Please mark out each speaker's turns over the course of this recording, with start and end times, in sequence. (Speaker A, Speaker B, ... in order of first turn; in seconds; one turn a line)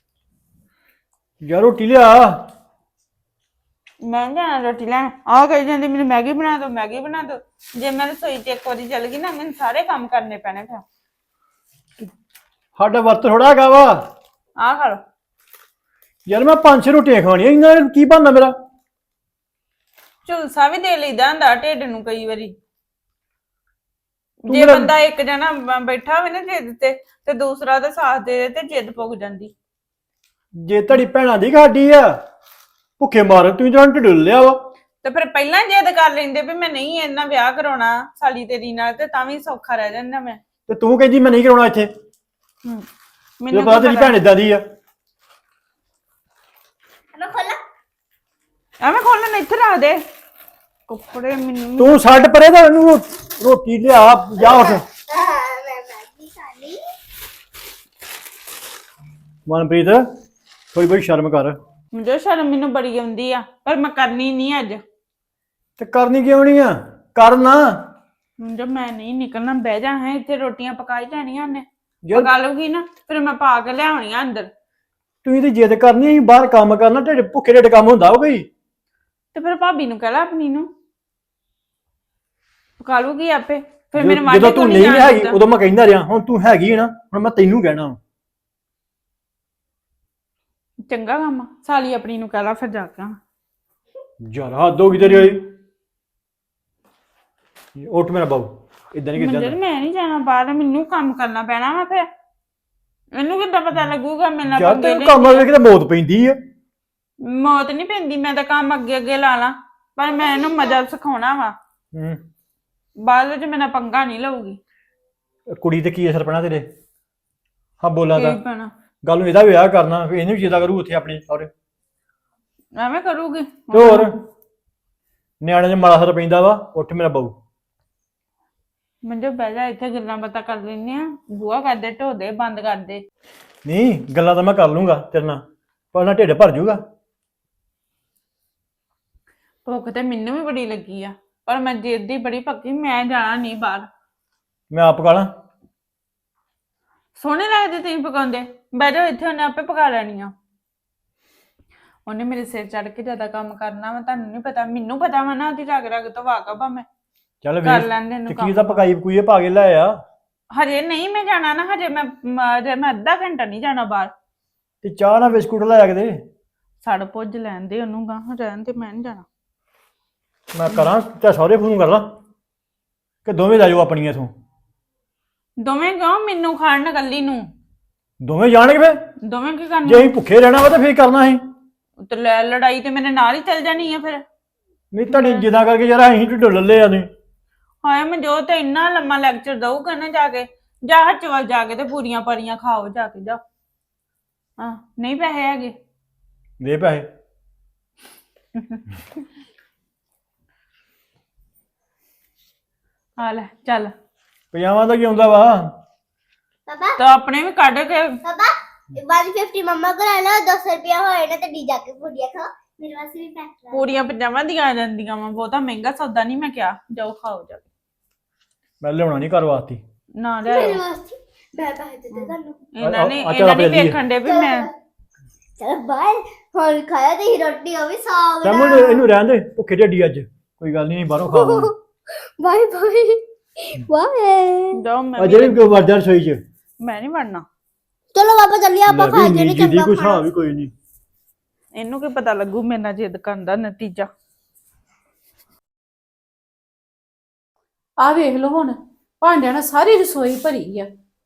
Speaker A: 1.4-2.4
Speaker B: 4.0-10.8
Speaker A: 12.8-14.0
Speaker B: 14.6-15.0
Speaker A: 16.3-18.5
Speaker B: 20.2-22.5
Speaker B: 24.4-29.5
Speaker A: 24.5-24.9
Speaker A: 30.6-32.2
Speaker A: 33.0-34.6
Speaker B: 35.0-40.4
Speaker A: 40.7-41.9
Speaker B: 43.4-44.2
Speaker A: 43.5-44.6
Speaker C: 47.1-47.6
Speaker B: 48.8-50.0
Speaker B: 50.9-52.0
Speaker A: 51.8-54.8
Speaker C: 54.4-56.8
Speaker A: 59.5-60.0
Speaker A: 60.7-61.6
Speaker B: 61.9-64.8
Speaker A: 65.8-67.9
Speaker B: 68.4-74.5
Speaker A: 72.0-72.3
Speaker A: 75.2-78.5
Speaker B: 79.3-80.7
Speaker B: 82.8-85.4
Speaker A: 84.0-88.0
Speaker B: 90.9-93.2
Speaker A: 94.2-95.5
Speaker B: 95.0-95.3
Speaker A: 97.8-99.5
Speaker B: 99.2-102.0
Speaker B: 103.1-105.5
Speaker A: 104.5-106.4
Speaker B: 107.2-111.5
Speaker A: 111.9-112.2
Speaker B: 113.0-114.6
Speaker A: 115.5-116.7
Speaker A: 117.8-118.4
Speaker B: 118.1-118.7
Speaker A: 119.0-121.5
Speaker B: 122.8-124.1
Speaker A: 123.7-124.2
Speaker A: 125.4-127.3
Speaker B: 129.0-133.0
Speaker A: 133.6-135.4
Speaker A: 135.9-136.8
Speaker B: 139.6-143.9
Speaker A: 144.7-145.3
Speaker B: 147.1-150.3
Speaker B: 152.1-156.8
Speaker A: 157.4-159.9
Speaker B: 157.6-158.8
Speaker B: 160.5-164.1
Speaker A: 164.8-166.2
Speaker B: 166.8-169.2
Speaker A: 170.5-172.1
Speaker A: 173.2-174.3
Speaker B: 175.6-177.5
Speaker A: 178.2-179.0
Speaker B: 179.2-180.1
Speaker A: 179.8-181.4
Speaker B: 182.0-184.2
Speaker A: 184.9-187.1
Speaker B: 185.1-185.5
Speaker B: 187.8-193.4
Speaker B: 194.6-195.7
Speaker A: 196.6-197.1
Speaker B: 203.2-203.9
Speaker A: 204.5-205.8
Speaker C: 206.7-207.0
Speaker B: 207.0-208.2
Speaker C: 208.2-213.9
Speaker B: 213.7-217.6
Speaker A: 218.8-219.8
Speaker B: 220.2-220.8
Speaker C: 220.4-222.6
Speaker B: 222.1-224.7
Speaker A: 222.8-224.0
Speaker C: 224.2-224.7
Speaker C: 225.6-229.0
Speaker A: 228.4-231.7
Speaker C: 231.3-231.8
Speaker C: 232.4-234.7
Speaker B: 234.7-235.9
Speaker A: 235.2-236.4
Speaker B: 236.8-237.4
Speaker C: 238.1-240.2
Speaker A: 238.9-240.7
Speaker B: 241.7-244.1
Speaker D: 248.0-250.9